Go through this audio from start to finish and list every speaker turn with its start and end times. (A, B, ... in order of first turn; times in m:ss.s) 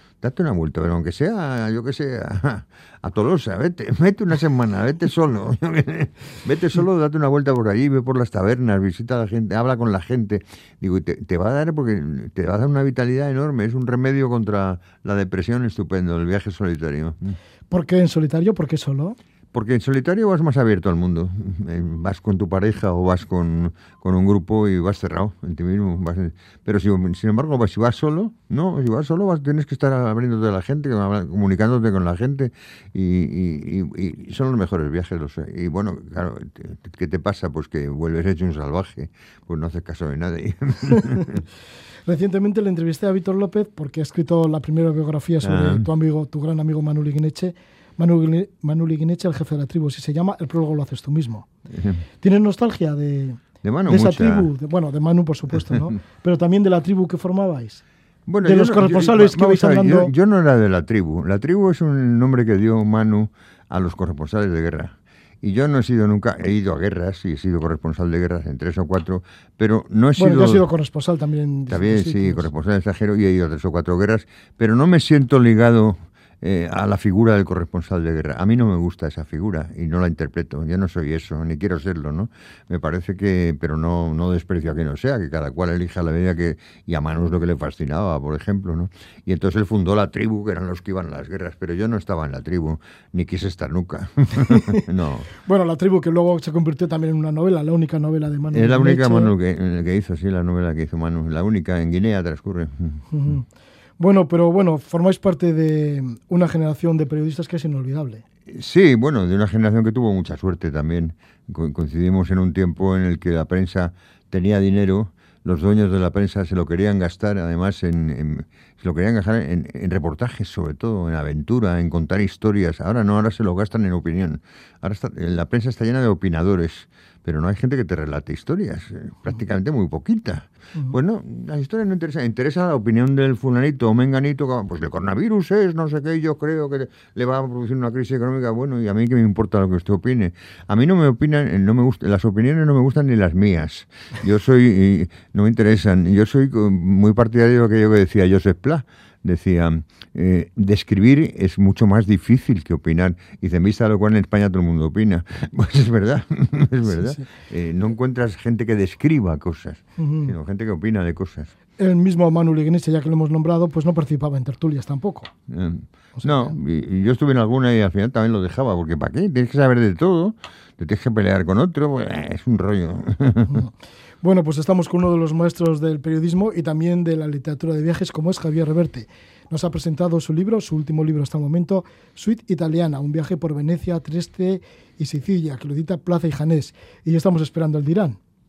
0:00.2-0:17.4 A
0:17.7-0:19.2 B
0:19.5-0:41.4 A
0:42.1-0:51.5 B
0:45.4-0:45.9 A
0:51.7-0:52.0 A
0:52.2-0:57.8 B
0:53.6-0:54.5 A
0:58.3-1:10.7 A
0:58.4-1:00.1 B
1:10.2-1:12.5 B
1:11.7-1:35.3 A
1:34.5-1:34.8 B
1:35.4-1:39.3 B
1:38.5-1:43.0 A
1:43.1-1:43.5 B
1:44.0-1:48.2 B
1:48.5-2:41.5 A
2:36.9-2:37.2 B
2:40.0-2:40.3 B
2:41.8-2:45.3 B
2:45.5-2:53.6 A
2:46.2-2:46.5 B
2:53.5-3:08.2 B